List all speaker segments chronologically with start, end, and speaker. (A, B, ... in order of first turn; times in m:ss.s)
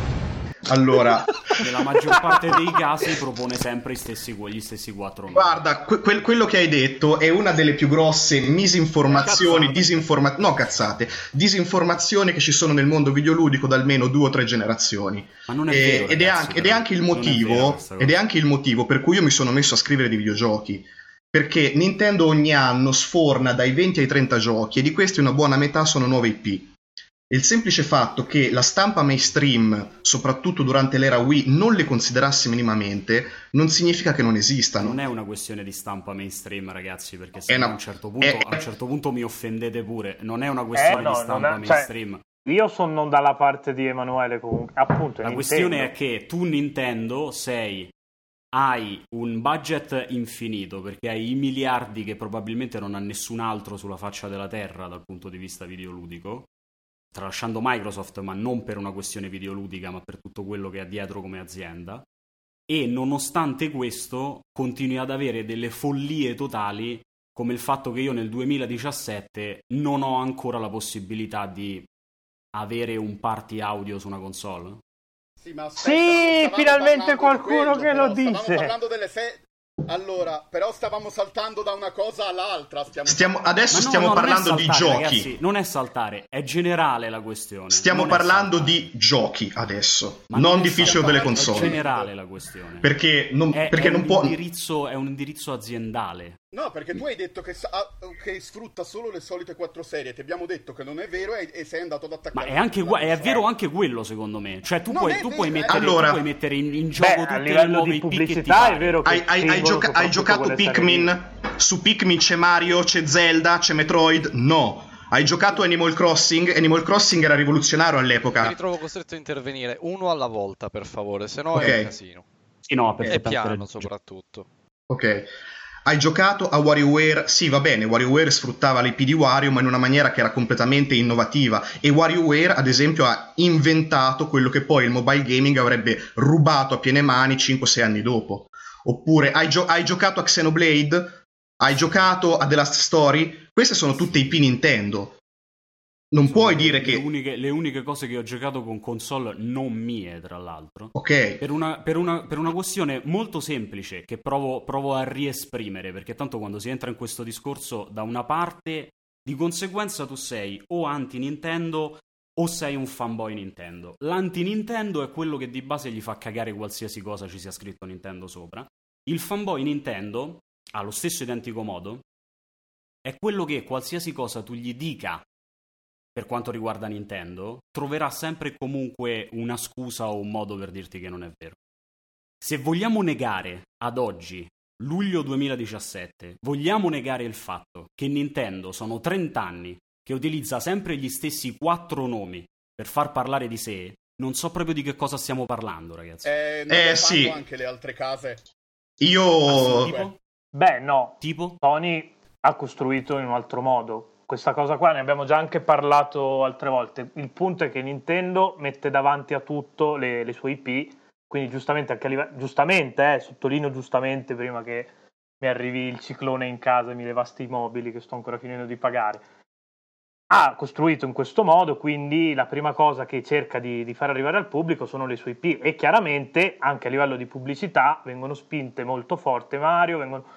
0:00.7-0:02.2 A
0:01.6-0:05.6 B
0:05.3-0:26.7 A
0:09.1-0:10.0 C
0:15.5-0:18.2 B
0:27.3-0:35.0 A
0:34.8-0:42.2 B
0:37.5-0:38.6 A
0:40.8-0:41.9 D
0:42.4-0:45.9 D
0:45.2-0:47.9 B
0:48.5-0:56.5 B
0:57.1-1:02.0 B
1:02.7-1:11.9 B
1:12.5-1:14.8 B
1:15.4-1:23.3 C
1:15.8-1:18.8 D
1:23.1-1:25.3 A
1:23.7-1:28.8 B
1:27.7-1:31.8 A
1:30.3-1:32.9 B
1:30.8-1:32.1 C
1:32.8-1:34.4 A
1:33.5-1:36.4 B
1:36.5-1:43.5 C
1:42.3-1:49.0 B
1:44.9-1:46.0 C
1:45.7-1:46.2 A
1:47.0-1:51.1 D
1:49.1-1:58.6 A
1:58.4-2:02.3 E
2:01.5-2:01.9 A
2:02.7-2:03.9 B
2:03.0-2:04.5 E
2:04.9-2:05.3 A
2:05.9-2:25.2 A
2:26.1-2:27.0 A
2:26.2-2:52.0 B
2:31.0-2:31.4 A
2:53.0-2:55.2 B
2:56.2-3:01.6 B
3:02.4-3:16.3 B
3:16.2-3:18.4 C
3:16.7-3:17.4 A
3:19.0-3:19.9 A
3:19.5-3:20.2 B
3:19.5-3:20.2 C
3:20.5-3:39.2 D
3:21.2-3:21.6 B
3:40.3-3:50.2 D